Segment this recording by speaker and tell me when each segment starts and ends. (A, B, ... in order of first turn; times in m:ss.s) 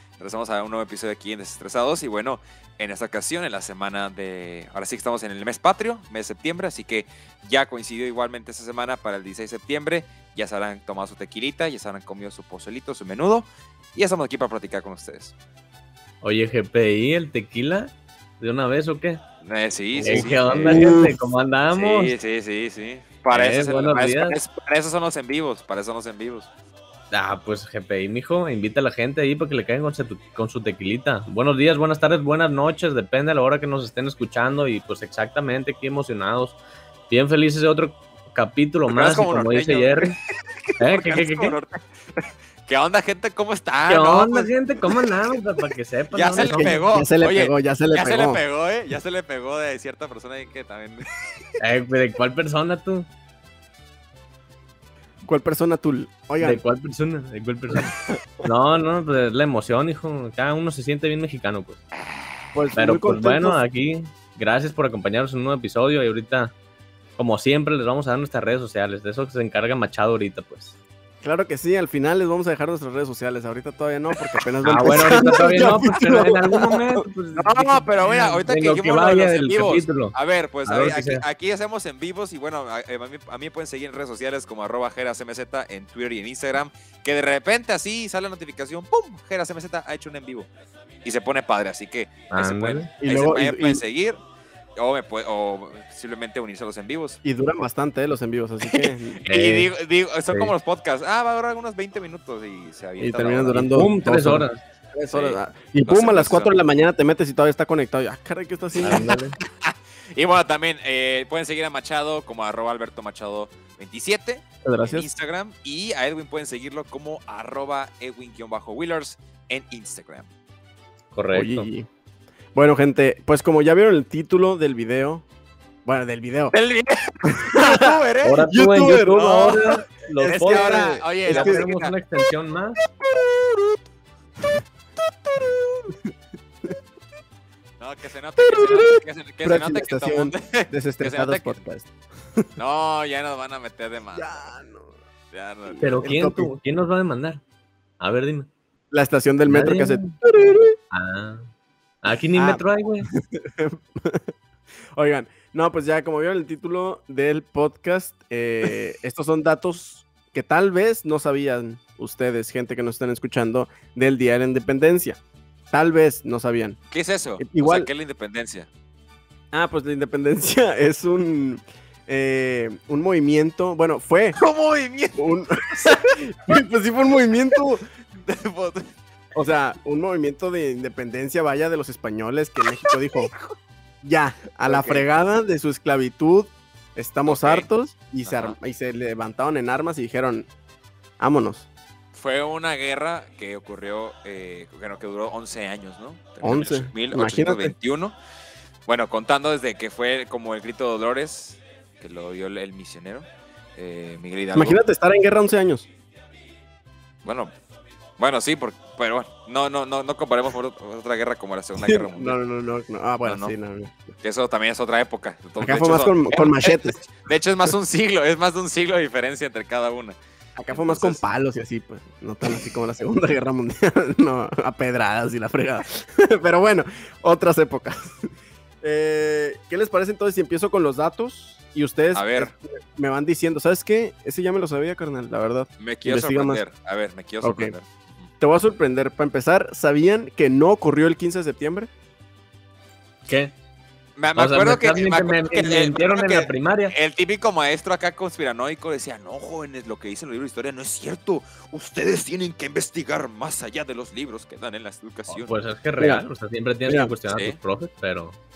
0:00.2-0:15.3 A
0:16.2-0:19.2 B
0:19.4-0:21.0 A
0:20.0-0:21.1 C
0:20.0-0:22.1 B
0:21.7-0:26.5 A
0:23.3-0:24.4 B
0:27.1-0:36.6 B
0:37.1-0:40.2 B
0:38.9-0:45.3 A
0:40.8-0:41.6 B
0:43.9-0:46.9 B
0:46.1-0:51.1 A
0:46.4-0:48.4 C
0:51.6-0:53.1 B
0:55.2-0:56.6 C
0:56.4-1:01.8 B
0:57.9-0:58.2 C
1:02.5-1:03.6 C
1:02.7-1:06.5 B
1:07.2-1:10.8 B
1:11.2-1:17.0 C
1:14.6-1:21.2 B
1:17.4-1:30.5 A
1:31.0-1:34.2 A
1:32.3-1:32.9 B
1:33.0-1:33.8 C
1:34.8-1:37.2 A
1:37.2-1:39.2 C
1:38.7-1:43.6 A
1:39.2-1:39.7 B
1:43.0-1:49.0 C
1:43.5-1:44.6 B
1:45.1-1:46.5 A
1:48.8-2:00.3 A
1:48.8-1:49.4 B
1:54.6-1:55.0 C
2:01.1-2:01.7 B
2:01.3-2:01.9 C
2:02.5-2:05.2 C
2:05.8-2:06.5 C
2:06.5-2:08.4 A
2:07.3-2:07.9 C
2:08.2-2:12.8 B
2:08.5-2:09.2 C
2:09.1-2:11.9 A
2:10.2-2:11.6 C
2:17.8-2:21.6 A
2:18.4-2:22.5 C
2:22.6-2:24.4 A
2:24.2-2:24.9 C
2:25.3-2:26.0 A
2:25.7-2:26.5 C
2:25.8-2:27.4 B
2:28.0-2:28.5 B
2:28.9-2:30.7 C
2:29.5-2:30.2 B
2:30.8-2:31.5 B
2:32.0-2:33.1 B
2:32.3-2:34.2 C
2:35.0-2:45.2 C
2:45.7-2:46.8 C
2:46.9-2:48.7 A
2:47.4-2:47.9 C
2:49.5-2:54.4 C
2:54.4-2:55.2 A
2:55.2-2:57.9 C
2:55.7-2:56.2 A
2:58.2-2:58.9 A
2:59.3-3:03.3 C
3:02.8-3:03.6 A
3:04.0-3:10.5 C
3:04.6-3:05.0 A
3:07.3-3:07.6 A
3:08.2-3:08.6 A
3:11.2-3:11.6 C
3:12.1-3:18.2 A
3:16.4-3:17.7 C
3:18.9-3:24.8 A
3:24.5-3:25.9 C
3:27.2-3:27.5 A
3:28.2-3:32.4 A
3:31.8-3:33.9 C
3:33.2-3:33.5 A
3:34.2-3:40.2 A
3:35.6-3:37.0 C
3:40.6-3:48.3 C
3:40.7-3:41.2 A
3:48.8-3:56.6 C
3:52.1-3:52.5 A
3:55.8-3:58.2 A
3:57.4-3:57.7 C
3:58.4-4:01.9 C
4:03.2-4:03.5 B
4:04.2-4:15.5 A
4:04.4-4:06.9 B
4:15.3-4:18.4 B
4:16.9-4:17.1 C
4:17.3-4:17.6 A